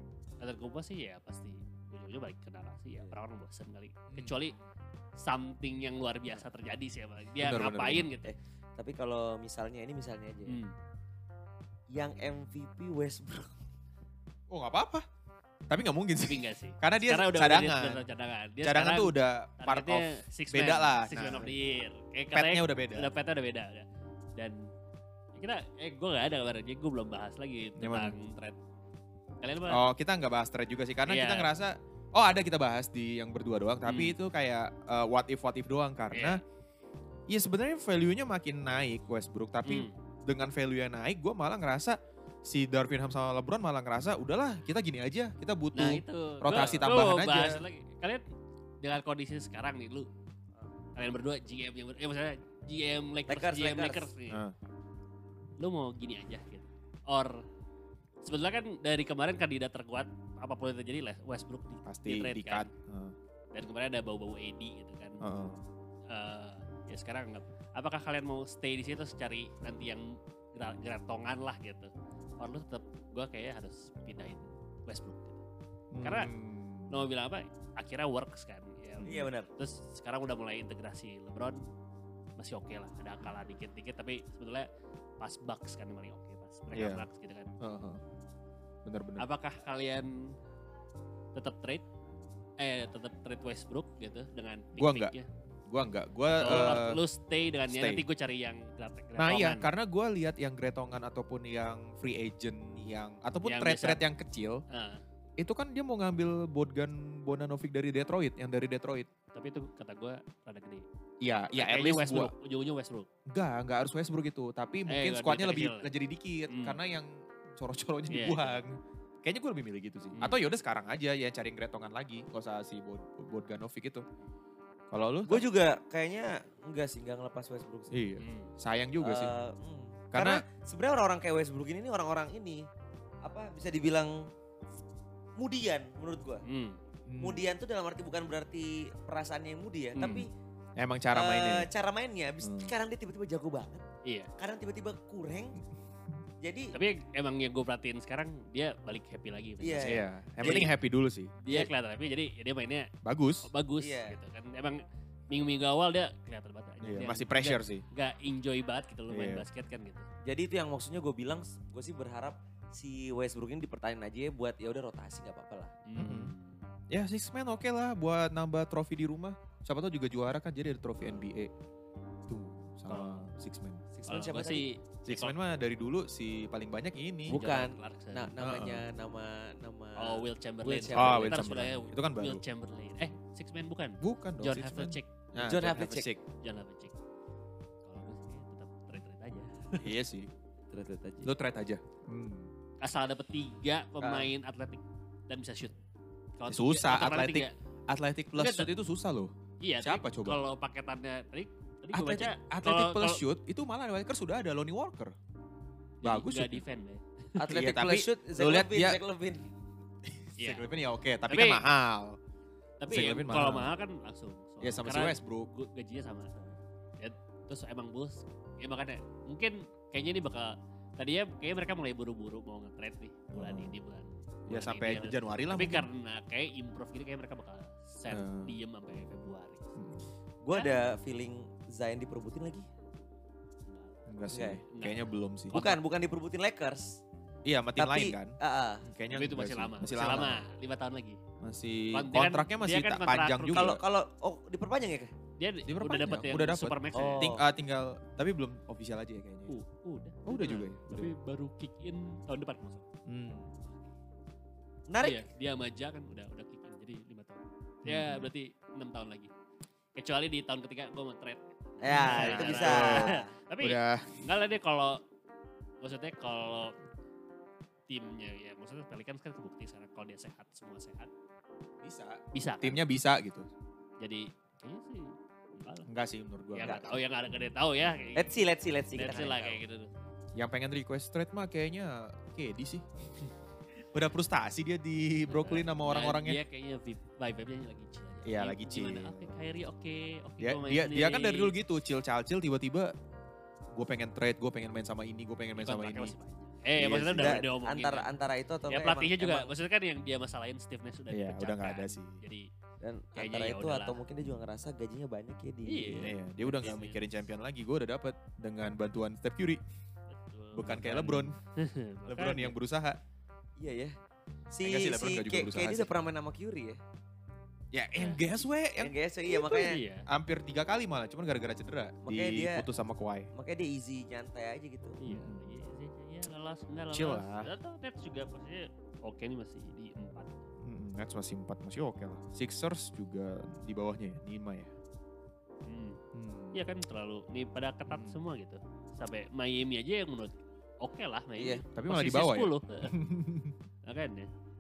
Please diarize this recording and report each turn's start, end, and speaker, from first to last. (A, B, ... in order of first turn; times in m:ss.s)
0:00.4-0:04.6 A
0:04.1-0:04.4 B
0:05.2-0:08.4 A
0:07.4-0:08.1 B
0:08.2-0:10.6 C
0:10.5-0:10.7 A
0:11.9-0:13.6 C
0:14.5-0:15.0 B
0:15.7-0:18.0 B
0:16.3-0:24.7 A
0:18.6-0:21.5 B
0:22.3-0:23.1 B
0:25.3-0:28.6 A
0:27.8-0:28.2 B
0:29.4-0:29.9 A
0:29.7-0:36.4 B
0:31.1-0:31.5 A
0:33.9-0:34.2 A
0:36.1-0:36.4 A
0:37.3-0:47.6 B
0:39.6-0:39.9 A
0:45.8-0:48.2 A
0:48.8-0:50.1 A
0:50.9-0:54.4 A
0:53.3-0:54.1 C
0:54.3-0:54.6 B
0:55.6-0:57.4 A
0:58.2-1:02.7 A
1:01.9-1:03.2 B
1:03.5-1:05.2 A
1:05.2-1:05.6 B
1:06.1-1:15.4 A
1:15.9-1:17.0 B
1:16.0-1:16.3 A
1:16.9-1:21.6 A
1:19.0-1:19.3 B
1:19.0-1:19.5 C
1:22.4-1:24.7 A
1:25.2-1:27.5 A
1:26.7-1:27.1 B
1:27.6-1:28.0 B
1:28.8-1:29.3 B
1:29.2-1:30.4 A
1:31.3-1:31.8 A
1:32.6-1:35.3 A
1:34.8-1:35.1 B
1:35.7-1:37.0 B
1:36.3-1:39.7 A
1:37.7-1:38.0 B
1:39.2-1:44.6 B
1:43.4-1:44.0 A
1:44.7-1:45.0 A
1:45.4-1:49.1 B
1:49.3-1:50.9 A
1:51.2-1:52.3 B
1:51.6-1:53.1 A
1:53.3-2:04.0 B
1:54.9-1:55.9 A
1:56.5-1:56.8 A
1:58.1-1:58.6 A
2:04.9-2:05.4 B
2:05.3-2:08.0 C
2:07.9-2:09.3 B
2:08.2-2:08.5 A
2:09.0-2:12.6 C
2:10.1-2:10.4 B
2:13.2-2:14.3 C
2:15.4-2:16.4 C
2:16.4-2:16.8 A
2:17.1-2:17.4 B
2:17.2-2:20.3 C
2:20.0-2:20.2 A
2:20.8-2:21.7 B
2:21.1-2:23.8 C
2:22.4-2:22.7 B
2:24.0-2:24.3 A
2:24.4-2:25.6 C
2:26.4-2:26.8 C
2:26.7-2:30.7 A
2:29.6-2:30.7 C
2:29.8-2:31.3 B
2:31.4-2:32.9 A
2:33.0-2:33.5 B
2:33.4-2:40.1 A
2:33.8-2:34.2 C
2:36.8-2:37.8 B
2:39.1-2:39.5 B
2:40.2-2:45.7 C
2:45.9-2:46.7 A
2:46.0-2:46.3 B
2:46.9-2:51.5 B
2:52.3-2:53.8 B
2:52.9-2:53.3 A
2:53.9-2:54.6 C
2:54.1-2:55.4 A
2:55.0-2:57.4 B
2:57.3-2:58.3 A
2:57.3-3:01.5 C
2:58.4-2:58.8 B
3:00.0-3:05.1 A
3:00.9-3:02.4 B
3:04.0-3:06.2 B
3:05.4-3:06.1 C
3:06.4-3:07.0 A
3:07.8-3:09.9 A
3:09.8-3:10.3 B
3:10.7-3:11.3 C
3:11.2-3:12.5 B
3:12.8-3:15.8 A
3:14.0-3:14.3 C
3:16.4-3:17.5 A
3:16.5-3:20.4 B
3:18.4-3:18.7 A
3:19.6-3:23.2 A
3:21.9-3:25.2 B
3:26.0-3:27.5 A
3:26.0-3:26.6 B
3:27.4-3:29.5 C
3:27.5-3:29.0 B
3:30.0-3:32.2 B
3:30.4-3:30.7 A
3:31.3-3:31.6 A
3:32.8-3:49.7 A
3:32.9-3:33.7 B
3:34.6-3:35.5 B
3:43.3-3:43.8 B
3:44.5-3:45.9 B
3:48.1-3:48.6 B
3:49.8-3:50.1 B
3:50.4-3:52.7 C
3:50.5-3:50.8 A
3:53.7-3:54.0 A
3:54.1-3:55.7 B
3:54.3-3:54.6 C
3:54.7-3:55.8 A
3:55.5-3:57.0 C
3:57.4-4:00.4 B
3:57.8-3:58.9 C
3:59.1-4:01.2 A
4:01.4-4:03.8 B
4:01.9-4:03.8 A
4:03.5-4:05.1 C
4:05.4-4:07.4 A
4:05.7-4:09.6 B
4:06.9-4:07.4 C
4:09.5-4:12.9 A
4:10.2-4:11.1 B
4:13.1-4:13.5 B
4:14.9-4:15.3 C
4:15.0-4:19.3 A
4:17.8-4:18.3 B
4:20.0-4:25.0 A
4:21.8-4:23.3 C
4:21.9-4:24.3 B
4:25.8-4:26.8 A
4:27.9-4:31.1 A
4:31.8-4:33.5 B
4:32.3-4:32.8 A
4:34.0-4:35.9 A
4:35.9-4:38.2 B
4:36.5-4:38.4 A
4:36.6-4:36.9 C
4:38.2-4:39.6 C
4:39.0-4:39.9 A
4:40.4-4:42.9 B
4:43.9-4:46.4 B
4:45.3-4:51.5 A
4:48.2-4:49.3 B
4:50.4-4:52.9 B
4:53.8-4:56.1 B
4:55.6-4:58.1 A
4:56.8-4:57.4 B
4:56.8-4:59.5 C
4:58.7-5:02.5 A
5:01.1-5:02.2 B
5:02.8-5:06.1 C
5:03.2-5:04.0 A
5:05.7-5:07.0 A
5:06.0-5:09.6 B
5:10.1-5:12.6 A
5:10.5-5:11.4 B
5:12.1-5:13.0 B
5:13.6-5:14.0 C
5:14.5-5:16.8 C
5:14.6-5:15.9 B
5:17.7-5:19.0 B
5:18.0-5:18.3 A
5:18.8-5:19.8 C
5:19.4-5:20.1 A
5:19.5-5:23.3 B
5:22.0-5:22.7 C
5:23.3-5:25.0 C
5:25.0-5:30.4 A
5:25.1-5:25.6 B
5:26.9-5:27.5 B
5:30.6-5:34.7 B
5:35.7-5:36.0 A
5:36.1-5:36.6 B
5:36.5-5:43.0 A
5:37.9-5:38.2 B
5:41.4-5:41.7 C
5:41.7-5:43.6 B
5:43.9-5:44.3 A